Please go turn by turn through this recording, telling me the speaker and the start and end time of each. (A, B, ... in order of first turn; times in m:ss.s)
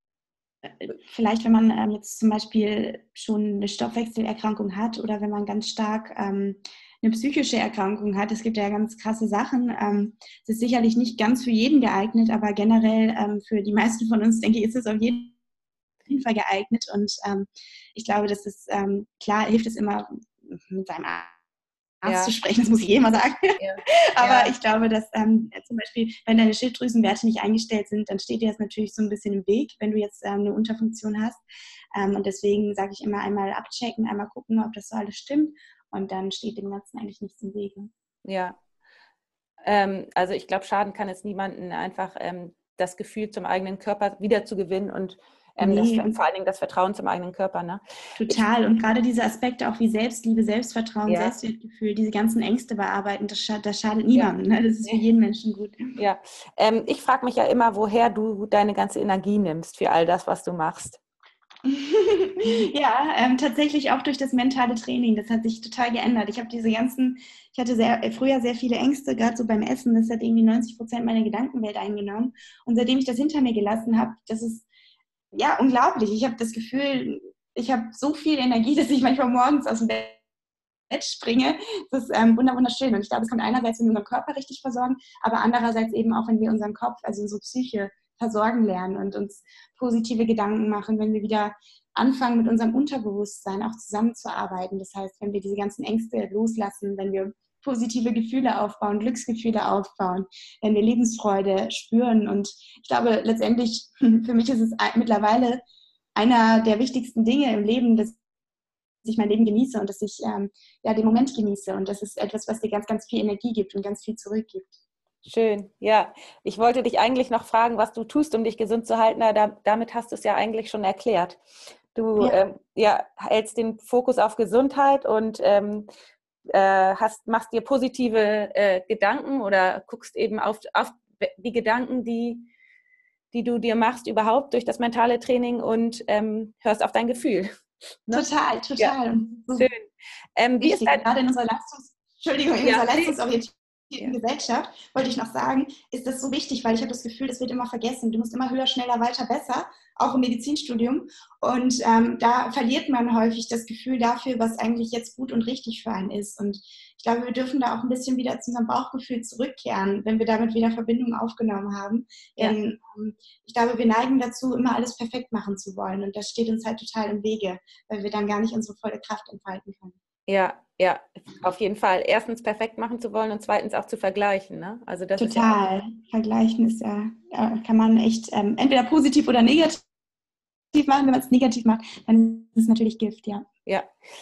0:00.8-0:15.4 A
0:16.1-0:21.3 A
0:22.0-0:23.6 A
0:22.0-0:22.3 B
0:23.6-0:24.5 B
0:24.1-0:31.4 A
0:31.9-0:37.9 A
0:38.2-0:38.6 B
0:39.6-0:48.4 B
0:45.6-0:46.2 A
0:48.2-0:55.8 A
0:51.0-0:51.4 B
0:56.0-1:01.0 B
1:01.6-1:14.6 A
1:15.3-1:20.2 A
1:20.9-1:45.6 A
1:46.2-1:48.2 A
1:49.0-1:54.7 A
1:55.2-2:01.4 B
2:01.9-2:05.9 B
2:06.5-2:12.5 B
2:13.3-2:17.5 B
2:18.1-2:19.7 A
2:19.5-2:21.0 B
2:20.6-2:50.0 A
2:22.6-2:23.2 B
2:50.3-2:55.6 B
2:55.2-2:59.8 A
3:00.7-3:03.4 A